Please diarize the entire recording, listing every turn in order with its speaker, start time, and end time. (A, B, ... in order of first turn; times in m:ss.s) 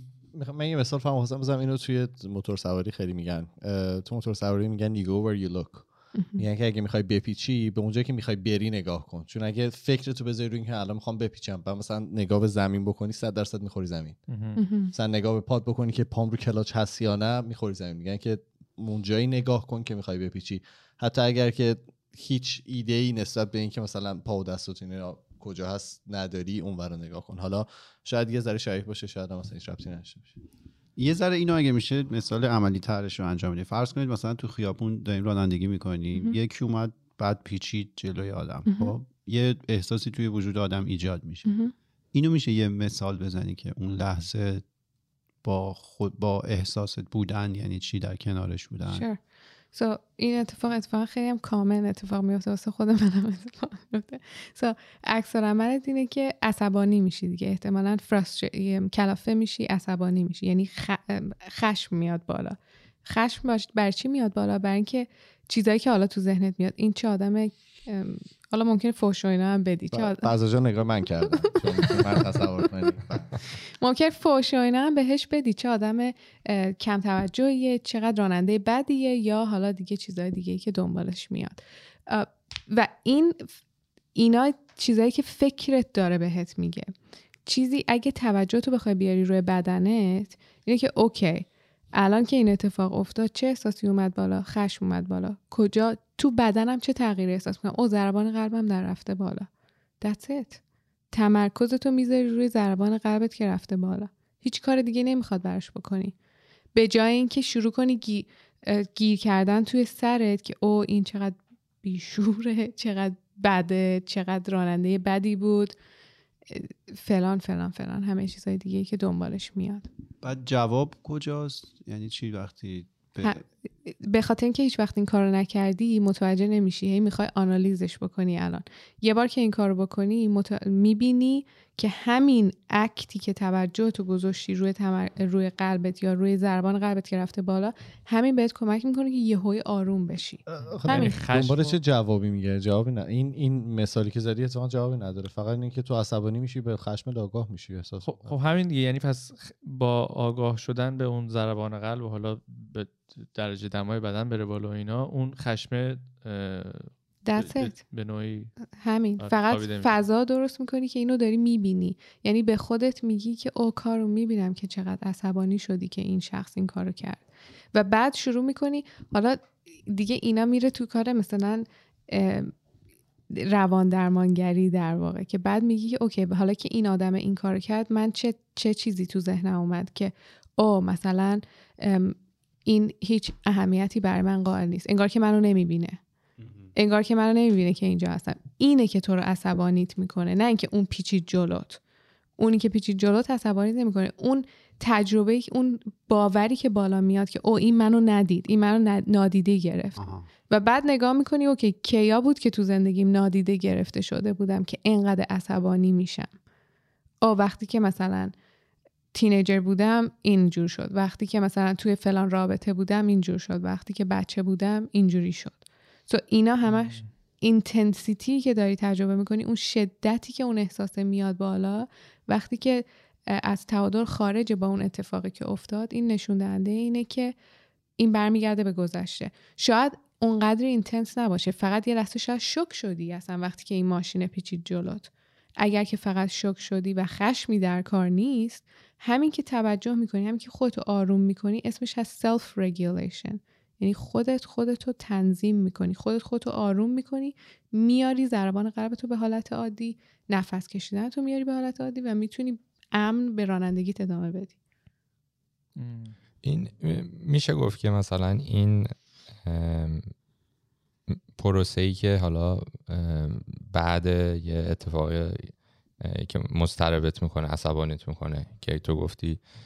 0:00.3-0:14.2 A
0:06.1-0:06.4 B
0:14.3-0:14.6 C
0:14.6-0:14.9 B
0:14.9-0:30.3 A
0:31.0-0:41.5 D
0:41.4-0:41.7 B
0:42.1-0:44.6 D
0:45.4-0:49.1 D
0:48.9-0:49.2 B
0:49.7-1:10.3 B
1:09.9-1:13.4 A
1:13.8-1:23.5 B
1:24.1-1:26.9 B
1:27.4-1:39.5 B
1:40.0-1:40.6 B
1:41.1-1:46.1 B
1:46.7-1:55.7 B
1:56.5-1:59.9 B
2:00.2-2:03.4 D
2:03.2-2:21.1 B
2:20.5-2:28.4 A
2:20.8-2:21.8 C
2:28.0-2:38.5 C
2:37.3-2:37.8 B
2:38.8-2:47.2 B
2:39.2-2:39.9 C
2:47.7-2:52.5 B
2:53.3-3:06.0 B
3:06.4-3:06.7 D
3:06.8-3:11.8 B
3:12.4-3:26.3 B
3:20.0-3:20.3 D
3:27.2-3:28.3 B
3:29.1-3:47.4 B
3:36.7-3:37.1 C
3:48.0-4:14.6 B
4:15.8-4:16.1 C
4:16.4-4:20.1 E
4:21.4-4:29.4 E